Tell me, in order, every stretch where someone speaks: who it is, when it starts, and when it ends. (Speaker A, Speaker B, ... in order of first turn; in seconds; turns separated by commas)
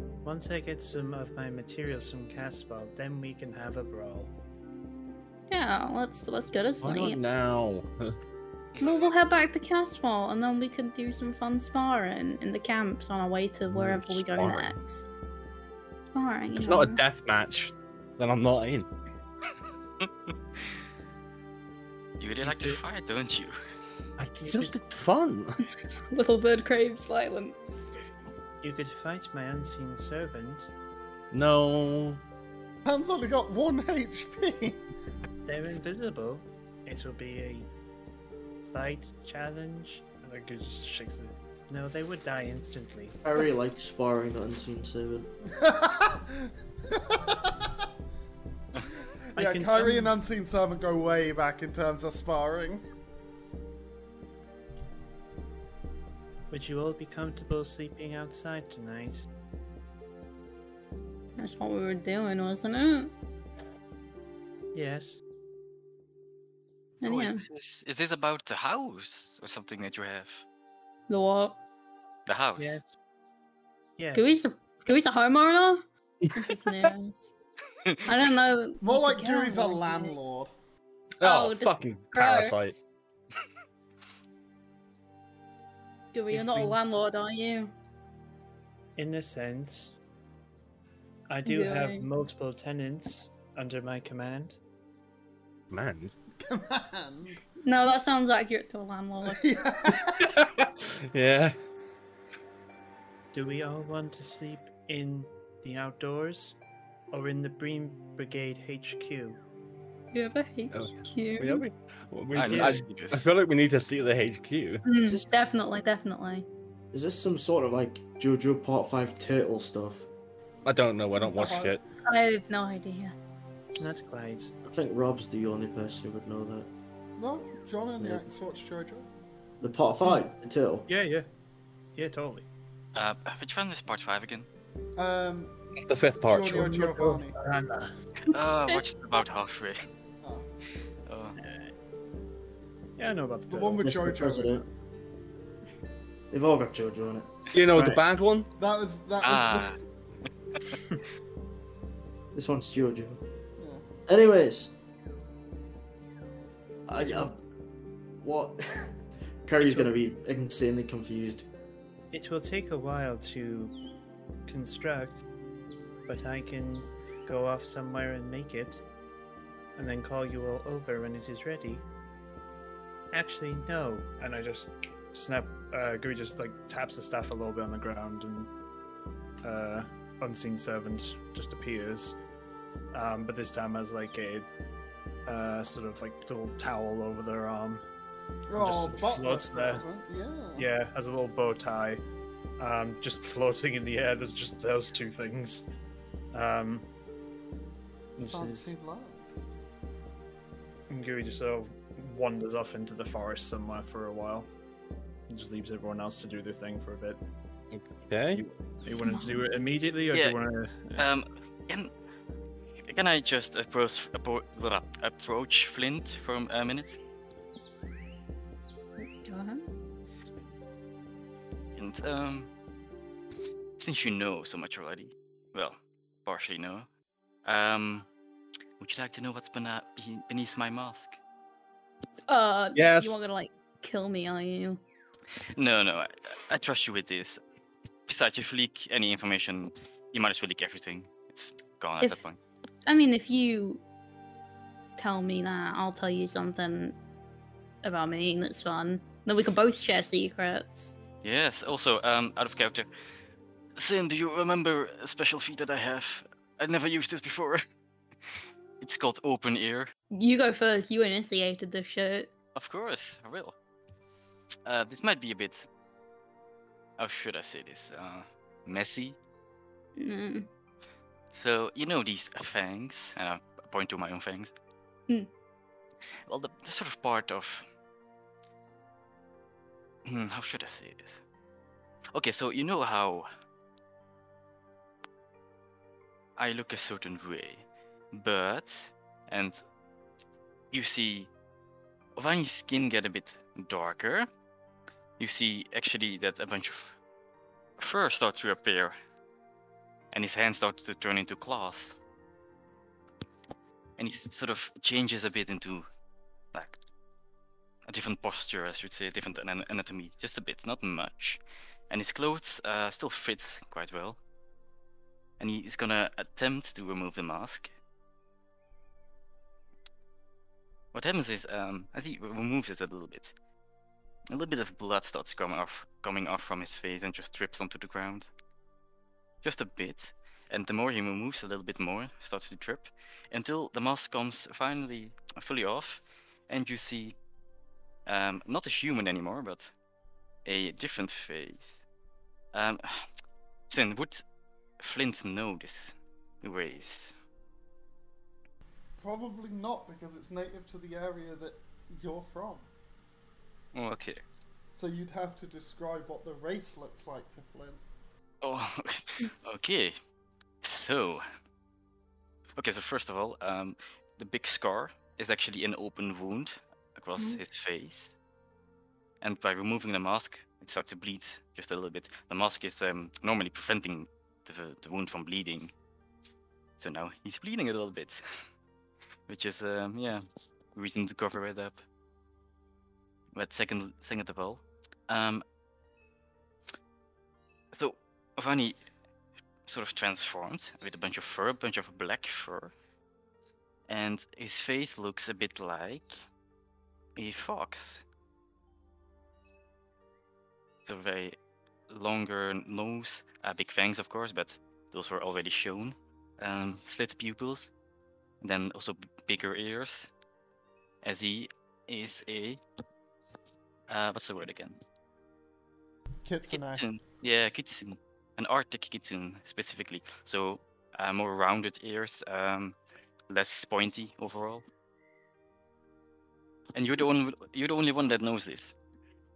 Speaker A: 0.2-4.3, Speaker B: 5.5-7.2, Speaker C: 6.8-8.1, Speaker B: 8.8-15.1, Speaker C: 13.7-14.7, Speaker B: 16.1-17.0, Speaker C: 16.5-18.9, Speaker D: 20.0-20.8, Speaker D: 22.2-23.6, Speaker C: 22.4-22.8, Speaker C: 24.2-25.6, Speaker A: 24.4-24.8, Speaker B: 26.1-27.9, Speaker A: 28.6-30.7, Speaker C: 31.3-32.2, Speaker E: 32.9-34.8, Speaker A: 35.5-37.7, Speaker A: 38.6-43.2, Speaker F: 43.2-45.3, Speaker E: 45.5-47.6, Speaker E: 49.4-52.8, Speaker A: 49.4-50.1, Speaker A: 56.5-59.3, Speaker B: 61.4-63.1, Speaker A: 64.7-65.2, Speaker B: 67.0-67.4, Speaker D: 67.0-70.5, Speaker B: 71.1-71.6, Speaker D: 72.3-72.8, Speaker A: 72.6-73.0, Speaker A: 74.0-74.4, Speaker B: 74.1-77.3, Speaker C: 76.2-76.8, Speaker B: 78.1-80.2, Speaker E: 78.8-80.5, Speaker C: 81.2-82.8, Speaker B: 81.2-82.8, Speaker B: 86.1-87.7, Speaker A: 86.3-86.8, Speaker A: 89.0-90.0, Speaker A: 91.3-94.6, Speaker B: 91.5-92.1, Speaker C: 95.7-96.1, Speaker E: 96.4-97.4, Speaker B: 97.6-99.5, Speaker E: 99.2-100.3, Speaker C: 100.2-101.5, Speaker A: 103.3-106.6, Speaker A: 107.1-109.4, Speaker B: 110.1-111.6, Speaker C: 110.7-114.8, Speaker D: 112.3-113.3, Speaker A: 112.4-112.9, Speaker B: 114.8-116.5, Speaker F: 116.9-120.1, Speaker C: 120.6-121.8, Speaker E: 121.3-121.8, Speaker B: 122.0-123.2, Speaker A: 123.8-124.5, Speaker F: 124.7-126.7, Speaker E: 127.2-129.1, Speaker F: 128.0-128.3, Speaker F: 129.6-130.9, Speaker A: 130.9-131.3, Speaker A: 132.0-132.5, Speaker D: 132.9-134.5, Speaker E: 135.0-135.6, Speaker C: 135.8-137.1, Speaker E: 136.3-137.3, Speaker A: 136.8-137.9, Speaker D: 138.3-139.8, Speaker B: 138.3-138.9, Speaker D: 141.1-141.4, Speaker A: 141.4-141.7, Speaker A: 143.0-143.9, Speaker E: 143.5-144.7, Speaker F: 143.8-144.6, Speaker F: 146.3-148.0, Speaker C: 147.5-148.5, Speaker E: 148.6-149.8, Speaker D: 149.2-149.8, Speaker F: 152.3-153.2, Speaker E: 153.6-153.8, Speaker F: 154.1-154.7, Speaker F: 156.9-157.4, Speaker A: 157.0-157.3, Speaker F: 158.2-158.9, Speaker F: 159.4-161.5, Speaker A: 159.6-159.9, Speaker A: 162.1-163.8, Speaker A: 164.5-165.2, Speaker A: 166.1-168.8, Speaker A: 169.8-171.8, Speaker A: 173.1-178.5, Speaker A: 179.4-182.2, Speaker A: 182.9-184.5, Speaker A: 185.3-187.8, Speaker E: 188.5-190.7, Speaker A: 188.6-189.8, Speaker A: 190.6-192.0, Speaker A: 192.6-195.6, Speaker A: 196.3-196.9, Speaker A: 198.2-198.8, Speaker E: 198.2-199.3, Speaker A: 200.9-204.5, Speaker A: 205.3-207.2, Speaker C: 207.7-208.4, Speaker A: 208.3-211.1, Speaker B: 209.1-209.4, Speaker D: 211.0-211.9, Speaker D: 212.8-217.0, Speaker B: 219.0-219.7, Speaker D: 221.8-222.5, Speaker D: 223.8-226.9, Speaker D: 227.4-228.1, Speaker D: 228.8-231.2, Speaker B: 232.3-234.8, Speaker C: 232.8-233.2, Speaker D: 235.6-237.4, Speaker D: 238.1-242.4, Speaker B: 242.9-243.8, Speaker B: 245.0-247.0, Speaker B: 247.8-251.0, Speaker D: 251.2-252.9, Speaker D: 253.8-257.6, Speaker D: 258.8-259.9, Speaker B: 260.1-262.3, Speaker D: 262.6-263.5, Speaker D: 264.7-265.7, Speaker D: 267.0-269.2, Speaker B: 270.0-270.5, Speaker D: 271.3-274.5, Speaker D: 276.3-277.6, Speaker D: 280.1-281.2, Speaker D: 282.1-283.3, Speaker D: 286.4-289.6, Speaker D: 290.7-291.3, Speaker D: 292.2-294.3, Speaker D: 295.2-296.9, Speaker D: 297.8-298.9, Speaker D: 300.1-302.0, Speaker D: 304.0-305.9, Speaker D: 306.5-306.8, Speaker D: 307.9-314.2, Speaker D: 315.4-317.7, Speaker D: 320.9-323.4, Speaker D: 324.3-328.3, Speaker D: 329.4-337.2, Speaker D: 338.1-339.7, Speaker D: 340.4-341.8, Speaker D: 342.5-343.0, Speaker D: 343.7-344.2, Speaker D: 344.8-347.1, Speaker E: 349.0-352.7, Speaker D: 353.7-354.2, Speaker E: 354.7-357.8, Speaker D: 358.4-360.0, Speaker D: 360.6-361.2, Speaker D: 362.6-368.1, Speaker D: 369.2-375.7, Speaker D: 376.8-378.2, Speaker D: 379.3-380.2, Speaker D: 380.8-381.9, Speaker D: 383.3-385.4, Speaker D: 387.7-388.8, Speaker D: 389.7-392.7, Speaker D: 393.9-396.1, Speaker D: 397.2-398.0, Speaker D: 400.9-401.4, Speaker D: 401.9-407.7, Speaker D: 408.4-410.1, Speaker D: 411.0-412.6, Speaker D: 413.9-414.8, Speaker E: 416.2-416.9, Speaker D: 416.5-422.8, Speaker D: 423.3-424.6, Speaker D: 426.8-428.8